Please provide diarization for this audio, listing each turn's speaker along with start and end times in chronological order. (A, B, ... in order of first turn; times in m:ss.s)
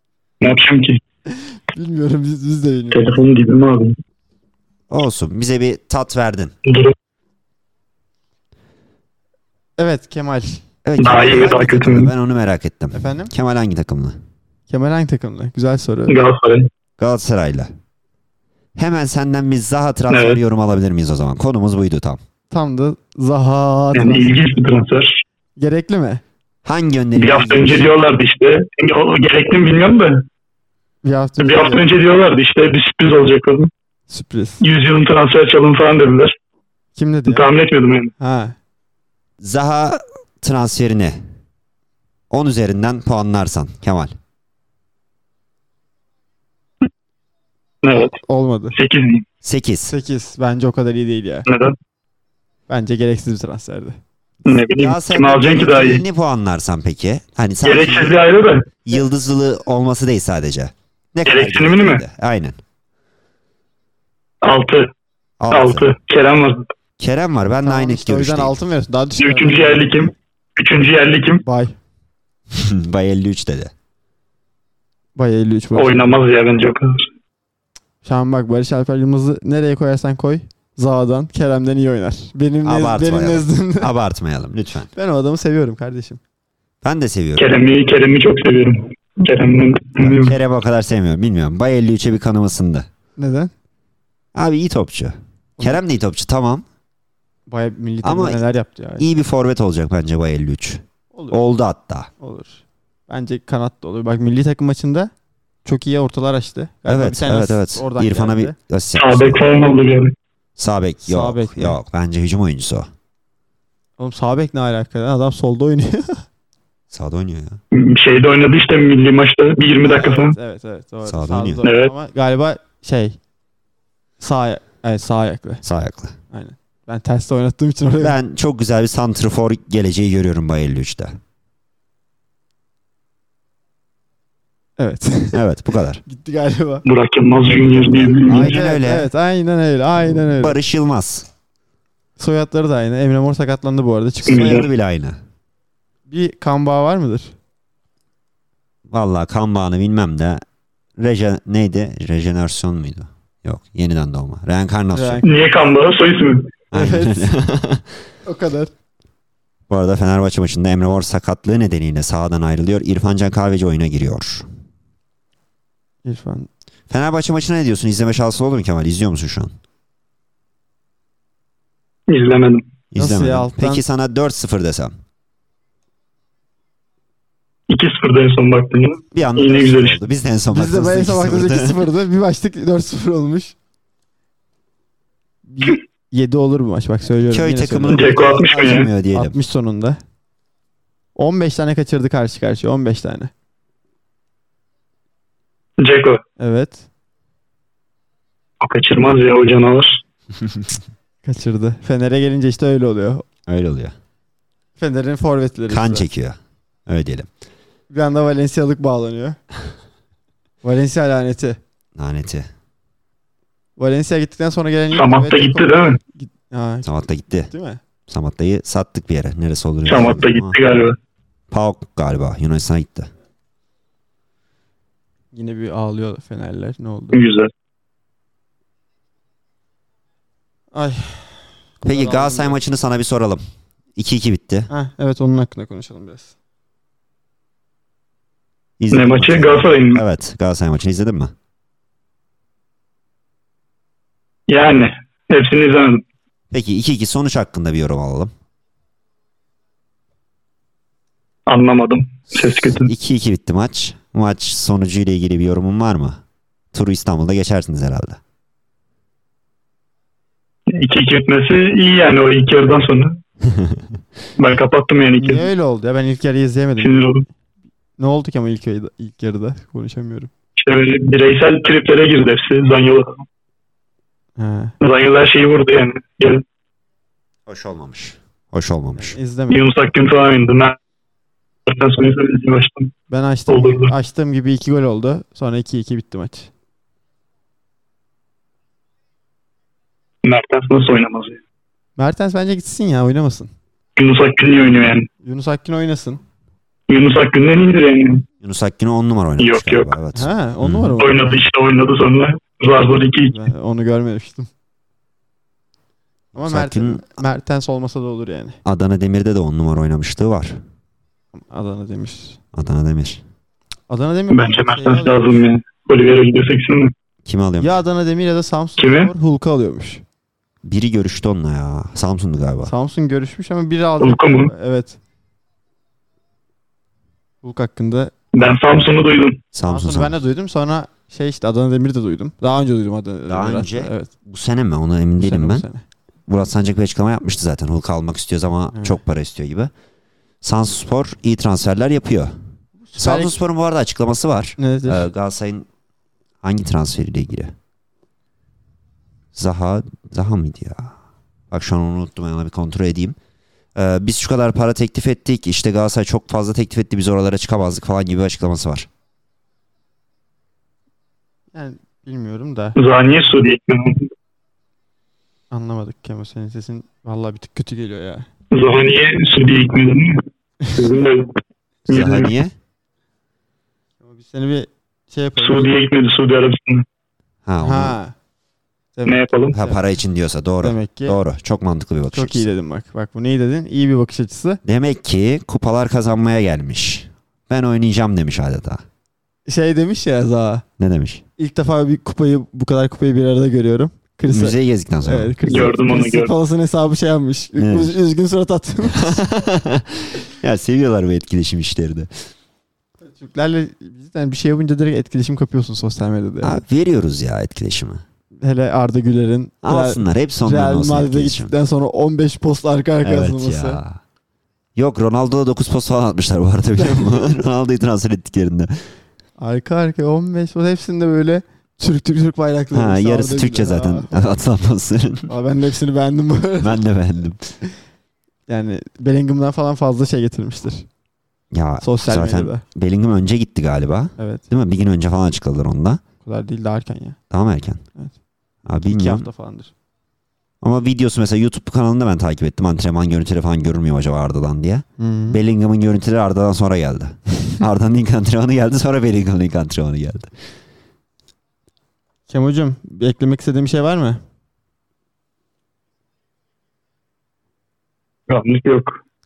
0:00.4-0:01.0 A
0:01.7-0:03.2 B
0:02.9-0:04.0 A
0:04.9-0:06.5 C
0:06.7-0:06.9 A
0:09.8-0:10.6 B
0:10.8-0:14.2 C
0:11.0-0:12.1 A
0:12.9-0:13.3 B
0:14.7-0:16.2 B
0:16.1-0:16.7 A
0:17.0-0:17.7 C
0:18.8-0:22.2 C
0:20.1-0:20.4 A
0:22.5-0:24.6 B
0:23.9-0:25.2 A
0:25.6-0:26.2 B
0:26.6-0:27.9 C
0:27.2-0:30.2 A
0:31.0-0:31.8 B
0:31.4-0:33.7 A
0:34.1-0:34.6 B
0:34.6-0:36.4 A
0:37.0-0:37.5 B
0:37.3-0:38.1 A
0:38.2-0:38.6 B
0:39.4-0:41.2 C
0:42.3-0:44.2 C
0:47.8-0:48.2 A
0:48.3-0:48.8 B
0:48.7-0:49.2 A
0:49.4-0:49.9 C
0:49.9-0:51.5 B
0:51.5-0:51.8 A
0:52.7-0:54.0 B
0:54.5-0:56.0 A
0:54.5-0:58.2 C
0:57.6-0:58.7 A
0:58.8-1:02.6 C
1:01.3-1:02.0 A
1:04.4-1:04.9 A
1:05.4-1:05.9 C
1:05.5-1:06.7 A
1:07.0-1:08.6 C
1:07.6-1:10.1 B
1:09.2-1:11.4 A
1:11.4-1:11.8 B
1:12.5-1:13.7 C
1:15.2-1:16.2 B
1:15.8-1:17.1 A
1:18.0-1:23.9 B
1:22.6-1:24.9 C
1:25.0-1:26.2 B
1:26.8-1:27.5 C
1:27.4-1:30.4 A
1:30.0-1:32.9 C
1:33.2-1:33.5 B
1:34.4-1:36.7 C
1:37.5-1:39.1 B
1:38.0-1:38.4 C
1:39.0-1:42.1 C
1:41.1-1:41.4 B
1:42.2-1:45.1 B
1:45.6-1:48.6 B
1:46.9-1:49.4 C
1:49.0-1:50.1 A
1:50.6-1:52.9 C
1:51.0-1:51.8 B
1:54.0-1:56.2 B
1:56.9-1:57.6 C
1:57.7-2:00.4 A
1:59.8-2:03.2 B
2:01.0-2:01.6 C
2:01.6-2:01.9 A
2:04.2-2:05.6 B
2:05.6-2:06.2 C
2:06.3-2:08.2 B
2:08.0-2:11.2 C
2:14.8-2:15.4 B
2:15.3-2:16.0 C
2:16.0-2:16.8 B
2:16.8-2:18.6 A
2:17.5-2:19.1 C
2:18.2-2:20.6 B
2:20.1-2:21.3 C
2:22.2-2:24.6 B
2:24.2-2:25.2 C
2:24.3-2:24.7 A
2:26.1-2:27.3 B
2:28.9-2:30.4 C
2:31.0-2:35.2 C
2:34.9-2:35.3 B
2:35.2-2:36.5 A
2:36.7-2:37.9 C
2:36.7-2:37.4 B
2:38.3-2:38.7 B
2:39.7-2:44.5 C
2:46.0-2:46.5 B
2:46.9-2:49.6 C
2:52.1-2:52.6 A
2:52.9-2:55.0 C
2:53.0-2:53.8 B
2:57.7-3:00.0 A
2:59.1-3:01.8 C
3:00.5-3:03.6 B
3:05.5-3:08.2 B
3:07.3-3:09.4 C
3:07.9-3:08.9 A
3:09.1-3:10.0 B
3:11.2-3:13.3 B
3:15.8-3:16.2 A
3:16.4-3:16.9 B
3:18.6-3:20.0 A
3:21.2-3:23.2 B
3:23.5-3:24.0 C
3:24.8-3:26.1 B
3:25.7-3:27.3 C
3:27.9-3:29.4 B
3:30.6-3:31.6 B
3:32.0-3:32.5 C
3:33.8-3:36.9 B
3:34.9-3:36.0 A
3:36.8-3:37.5 C
3:37.5-3:37.8 B
3:38.1-3:40.6 C
3:39.9-3:41.0 A
3:41.5-3:43.1 C
3:45.3-3:47.2 B
3:47.1-3:47.5 A
3:50.7-3:52.6 B
3:51.8-3:53.4 C
3:54.0-3:54.7 C
3:54.7-3:56.3 B
3:58.8-4:01.3 C
3:58.9-4:00.0 A
4:04.5-4:06.0 A
4:06.5-4:08.3 C
4:11.5-4:12.9 A
4:12.7-4:16.2 C
4:16.7-4:18.2 C
4:20.7-4:23.2 A
4:23.5-4:23.8 C
4:24.4-4:25.5 A
4:25.2-4:27.1 B
4:26.8-4:27.2 A
4:28.0-4:30.3 B
4:30.6-4:33.2 A
4:34.4-4:34.7 B
4:34.8-4:36.4 A
4:37.5-4:39.2 C
4:39.0-4:39.6 B
4:39.5-4:40.8 A
4:41.7-4:42.9 A
4:43.1-4:46.5 B
4:43.5-4:43.9 A
4:50.2-4:51.4 A
4:52.0-4:53.5 B
4:54.0-4:55.1 A
4:55.2-4:56.2 B
4:56.9-4:58.2 A
4:58.4-5:01.0 C
4:59.4-4:59.9 A
5:00.1-5:01.4 B
5:01.0-5:03.4 A
5:03.3-5:04.5 B
5:06.3-5:07.1 C
5:06.4-5:08.6 B
5:08.6-5:10.6 C
5:11.3-5:12.4 B
5:12.5-5:13.2 C
5:13.9-5:15.3 B
5:14.3-5:16.9 A
5:17.3-5:17.8 C
5:17.6-5:20.0 B
5:18.8-5:19.1 A
5:20.6-5:22.7 C
5:22.6-5:25.0 B
5:24.0-5:24.5 A
5:27.4-5:28.1 B
5:28.3-5:29.4 A
5:29.5-5:30.2 C
5:29.6-5:34.1 B
5:33.3-5:35.7 C
5:35.2-5:35.8 B
5:36.3-5:39.7 C
5:38.7-5:39.0 B
5:40.4-5:42.4 C
5:42.8-5:43.4 B
5:43.0-5:45.7 C
5:44.6-5:45.1 B
5:46.4-5:47.6 C
5:49.4-5:51.0 C
5:51.5-5:53.2 C
5:53.8-5:58.9 C
6:01.5-6:02.8 B
6:02.8-6:04.1 A
6:05.5-6:08.3 B
6:08.5-6:11.3 A
6:11.9-6:12.4 A
6:11.9-6:12.6 C
6:14.0-6:15.7 B
6:15.4-6:16.8 A
6:17.5-6:18.0 C
6:17.6-6:18.2 B
6:19.0-6:19.8 B
6:19.1-6:19.5 A
6:19.5-6:22.5 C
6:20.6-6:21.2 B
6:22.1-6:24.6 B
6:24.6-6:28.8 C
6:29.5-6:30.6 B
6:30.8-6:31.2 C
6:31.4-6:39.2 B
6:34.3-6:35.7 C
6:35.5-6:36.3 A
6:37.6-6:37.9 C
6:38.9-6:42.1 C
6:43.0-6:46.6 B
6:46.4-6:48.0 C
6:48.4-6:53.8 B
6:49.6-6:51.5 C
6:53.0-6:54.0 C
6:54.8-6:58.8 C
6:59.4-7:04.4 B
7:02.7-7:05.3 C
7:05.3-7:06.8 B
7:06.6-7:07.5 C
7:08.5-7:10.9 B
7:11.5-7:16.0 C
7:11.8-7:12.6 B
7:14.2-7:14.4 B
7:16.2-7:17.2 B
7:17.3-7:17.8 C
7:18.7-7:19.3 C
7:18.9-7:19.7 B
7:20.6-7:30.3 C
7:25.0-7:25.4 B
7:32.3-7:34.2 B
7:38.3-7:39.0 A